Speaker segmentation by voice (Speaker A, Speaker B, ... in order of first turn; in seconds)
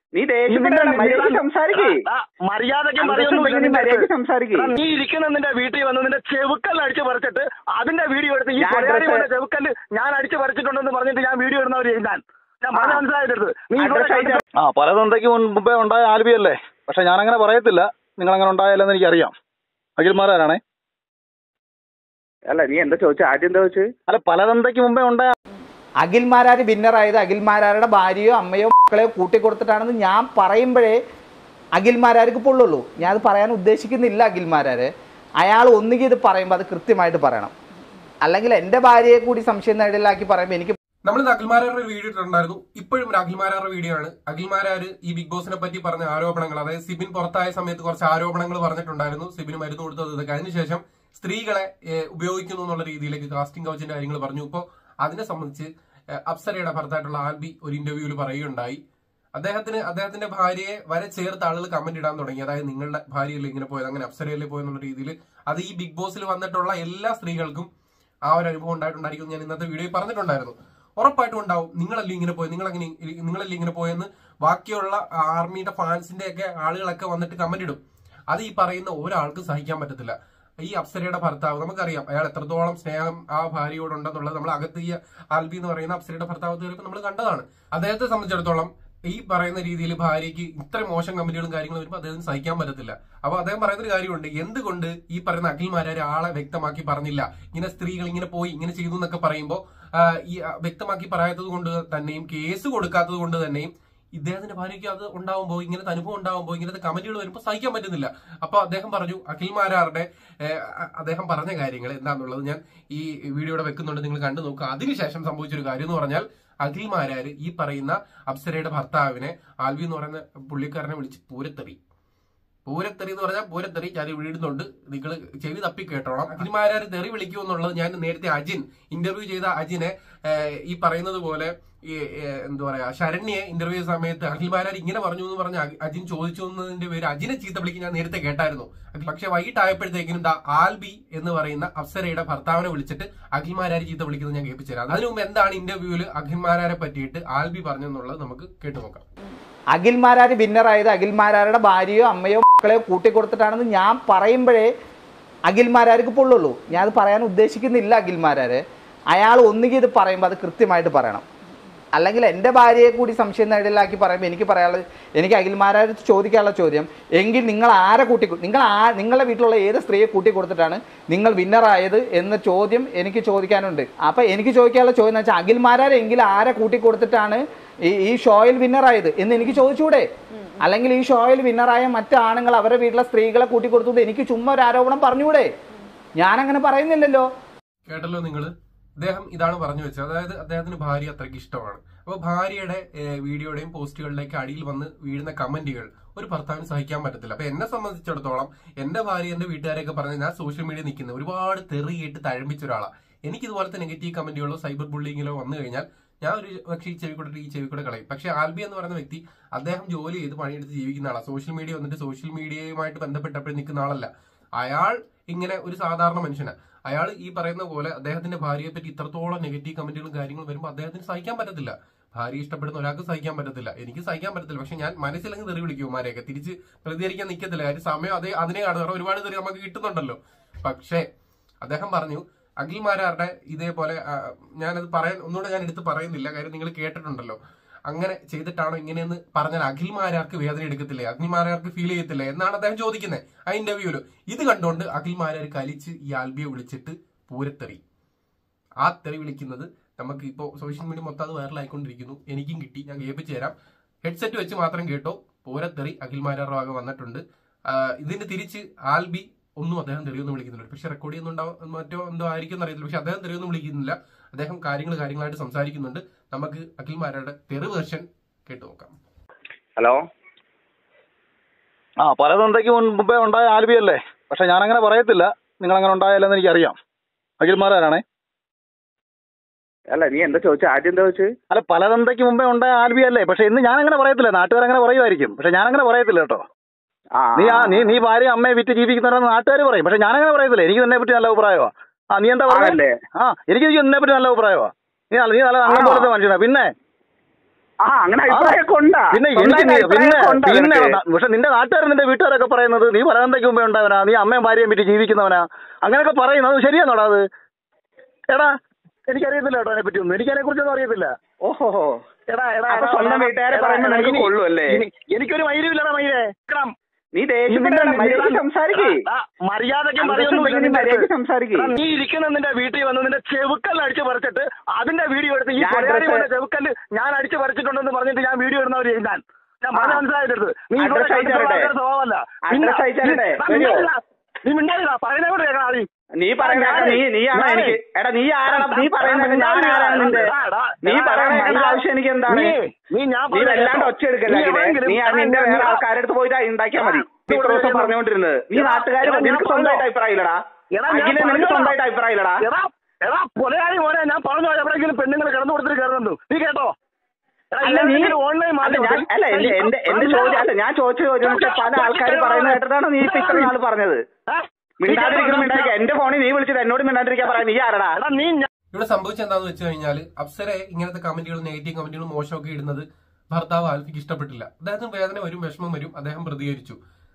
Speaker A: 0.1-2.0, 3.0-4.7, 8.6-9.3, 12.7-13.0, 13.8-14.4, 22.5-23.9, 269.8-270.0, 279.9-281.3, 287.2-287.9, 292.5-292.9, 295.6-296.1, 297.8-301.0, 311.4-312.0, 312.7-314.8, 317.1-319.1, 320.0-321.7, 325.6-326.3, 329.7-330.0, 330.8-331.7, 332.5-333.9, 336.2-342.6, 343.3-350.4, 350.9-352.4, 357.6-364.0, 364.8-368.0
Speaker B: 0.5-4.0, 4.6-14.4, 309.1-311.1, 312.3-316.7, 317.5-335.9, 336.4-337.7, 338.4-341.7, 342.3-345.8, 346.8-347.9, 348.6-349.8, 350.8-351.8, 352.4-356.7, 357.6-360.4, 361.3-363.5, 364.3-365.7, 368.1-368.5
Speaker C: 14.6-19.3, 20.0-20.6, 24.1-25.3, 272.0-276.7, 277.4-278.0, 281.5-286.4, 287.4-296.7, 298.3-298.6, 299.1-307.2
Speaker D: 26.0-31.0, 31.8-34.9, 35.4-37.5, 38.2-40.8, 149.7-154.7, 155.5-158.6, 159.1-161.2, 161.9-180.0, 180.6-185.5, 186.2-187.2
Speaker E: 41.0-55.7, 56.2-58.8, 59.3-67.7, 68.3-77.8, 78.3-121.8, 122.7-149.1, 187.9-231.1, 231.6-247.8, 248.8-268.9, 368.7-376.8